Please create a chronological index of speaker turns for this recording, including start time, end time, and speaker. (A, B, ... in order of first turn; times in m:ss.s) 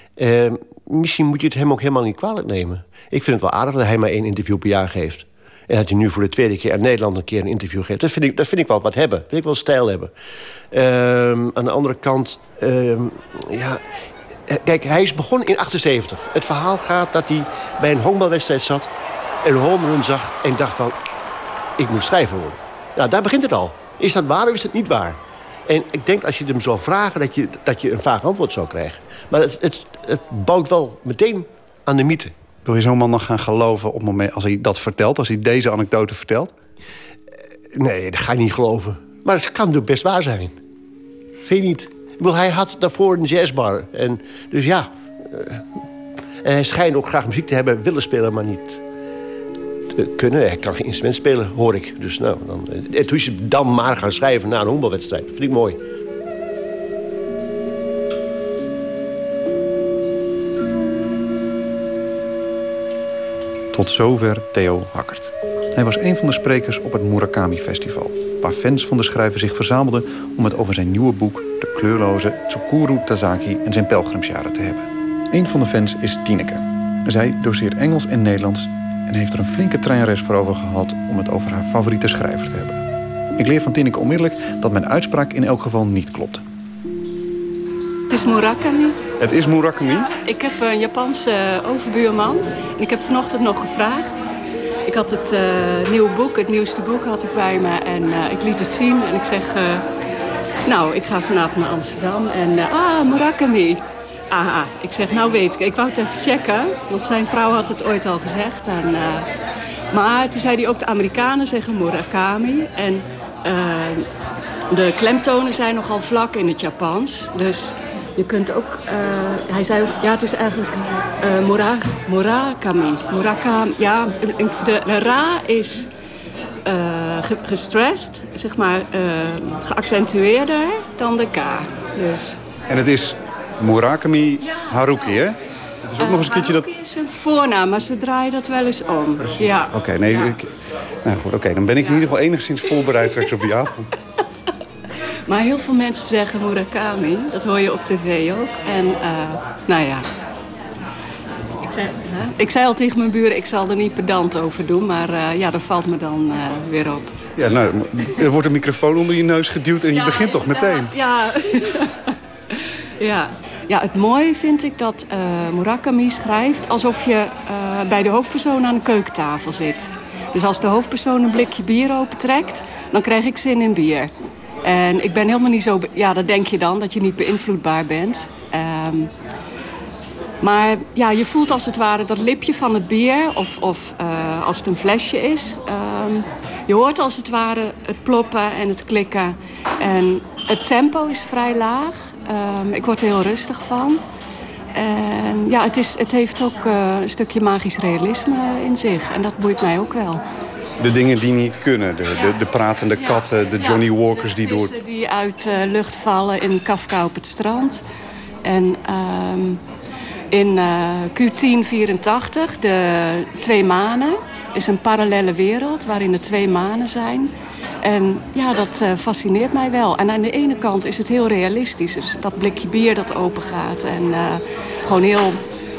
0:00.2-0:10.1 A
0:10.7-0:13.8 A
0:14.5-0:18.9 A
0:19.4-0:21.0 A
0:21.8-0:32.3 A
0:32.6-0:36.5 B
0:37.8-0:40.5 A
0:41.4-0:45.7 A
0:46.4-0:48.8 A
0:49.9-0:55.8 A
1:03.7-1:22.8 B
1:23.4-1:26.4 B
1:28.1-1:29.0 C
1:29.2-1:30.2 B
1:30.1-1:34.2 C
1:34.9-1:39.9 C
1:40.7-1:49.3 C
1:49.9-1:54.1 C
1:54.7-2:05.9 C
2:06.6-2:12.4 C
2:12.7-2:16.7 B
2:14.5-2:15.0 C
2:16.0-2:20.2 C
2:19.2-2:20.5 B
2:21.0-2:23.9 B
2:25.3-2:30.1 C
2:31.7-2:37.1 C
2:37.4-2:41.0 B
2:39.9-2:42.0 C
2:43.0-2:54.1 C
2:54.6-2:59.1 C
3:00.4-3:14.0 C
3:14.7-3:20.2 C
3:20.8-3:24.7 B
3:23.0-3:23.8 C
3:24.4-3:27.8 C
3:28.4-3:29.6 C
3:30.3-3:37.3 C
3:37.8-3:45.4 C